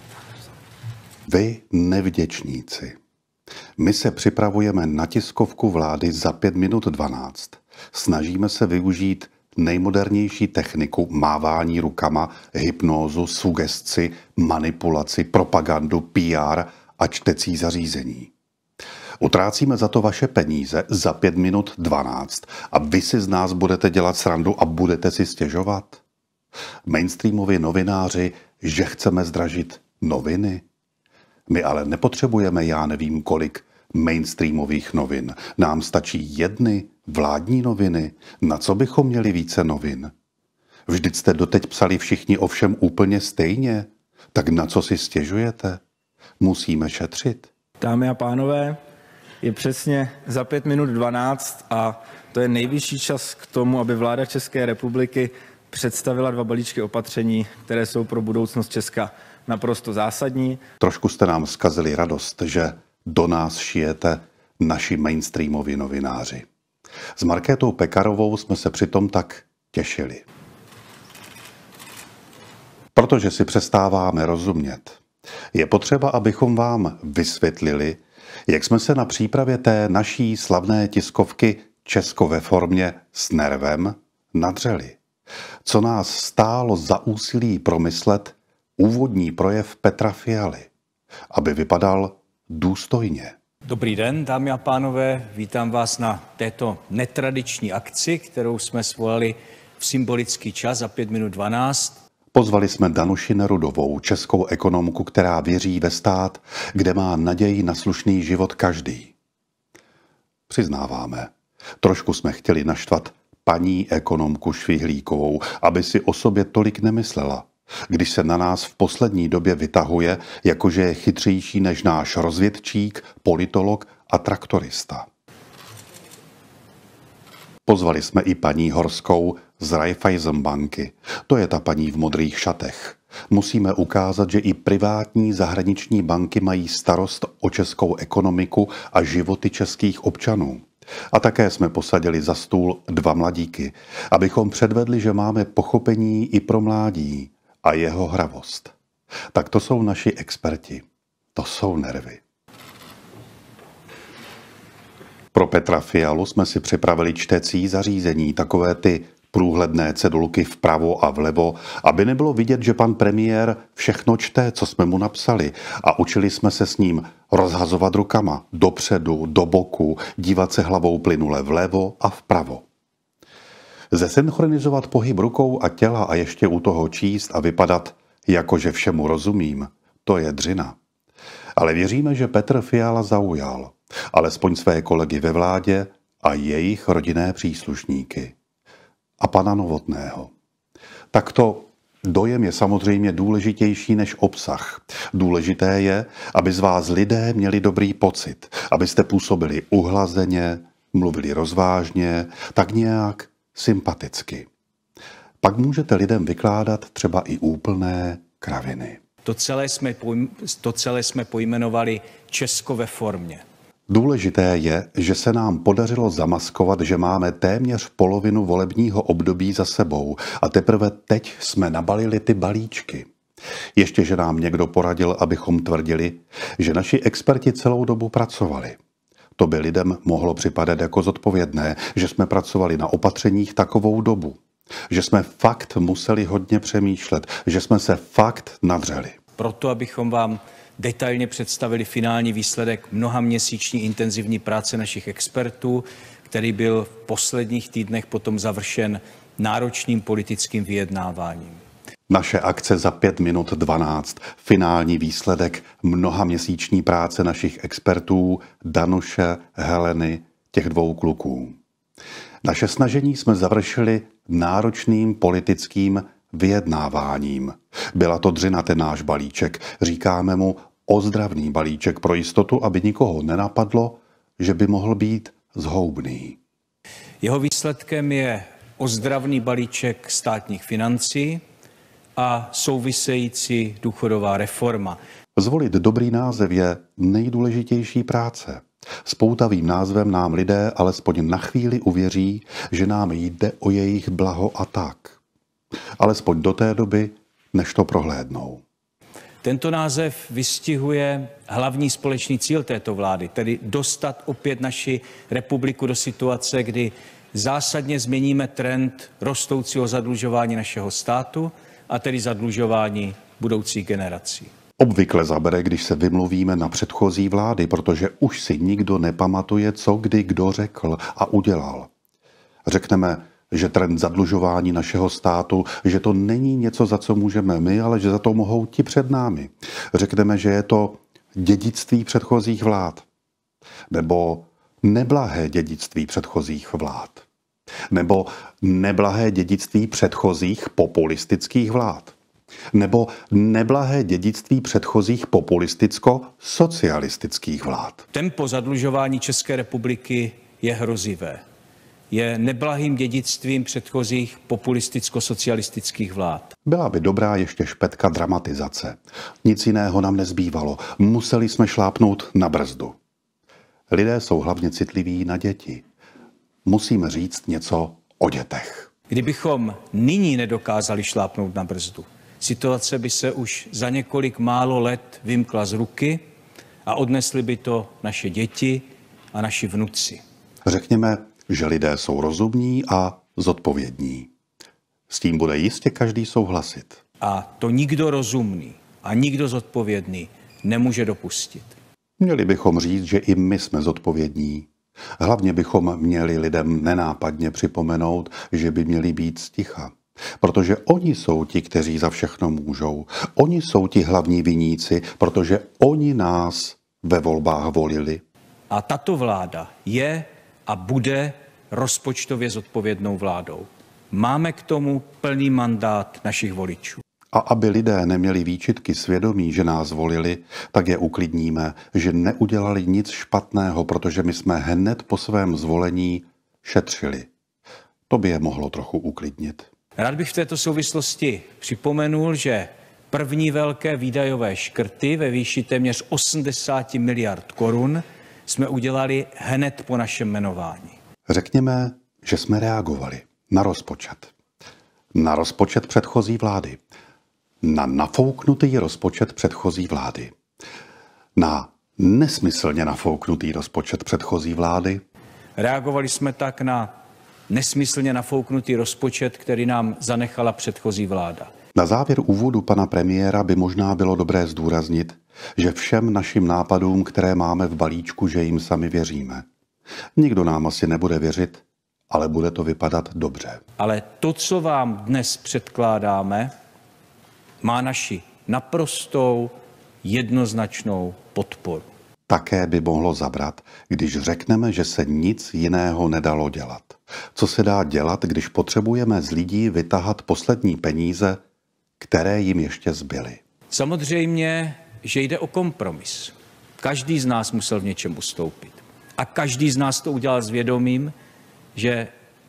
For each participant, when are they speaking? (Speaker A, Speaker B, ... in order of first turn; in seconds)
Speaker A: 1.3-3.0, 3.8-18.3, 19.2-26.0, 26.9-30.6, 31.5-40.1, 40.9-45.8, 46.4-47.5, 60.8-66.5, 67.2-70.2, 72.9-75.0, 75.5-85.0, 85.6-90.7, 91.3-93.3, 102.3-109.1, 110.5-125.1, 127.7-148.7, 149.3-152.2, 155.3-172.6, 173.9-180.8, 181.6-188.3, 189.2-190.3, 191.1-204.5, 205.4-209.0, 213.9-223.1, 223.8-228.8, 229.4-234.4, 234.9-239.2, 252.1-261.6, 262.4-276.4, 285.4-295.2, 296.0-298.6, 314.8-321.9, 322.6-333.1, 333.9-337.2, 337.9-342.1, 342.7-348.0, 356.6-362.9, 363.9-365.8, 366.6-368.9, 380.6-384.3, 385.1-387.0, 392.2-408.2, 417.3-427.3, 428.1-429.7, 441.3-444.3, 445.1-446.8, 447.6-450.3, 451.4-455.0, 461.7-469.4, 470.1-473.6, 482.3-491.4, 492.0-493.4
Speaker B: 47.8-48.8, 49.4-60.6
Speaker C: 93.7-102.0, 209.2-213.4, 239.4-251.6, 277.2-281.4, 282.1-285.0, 299.4-314.5, 348.1-351.4, 352.1-356.5, 369.1-376.2, 376.9-380.2, 387.2-391.8, 408.7-417.0, 430.0-440.9, 455.6-456.9, 457.5-461.5, 473.8-476.5, 477.6-481.9, 493.7-501.1, 501.7-502.1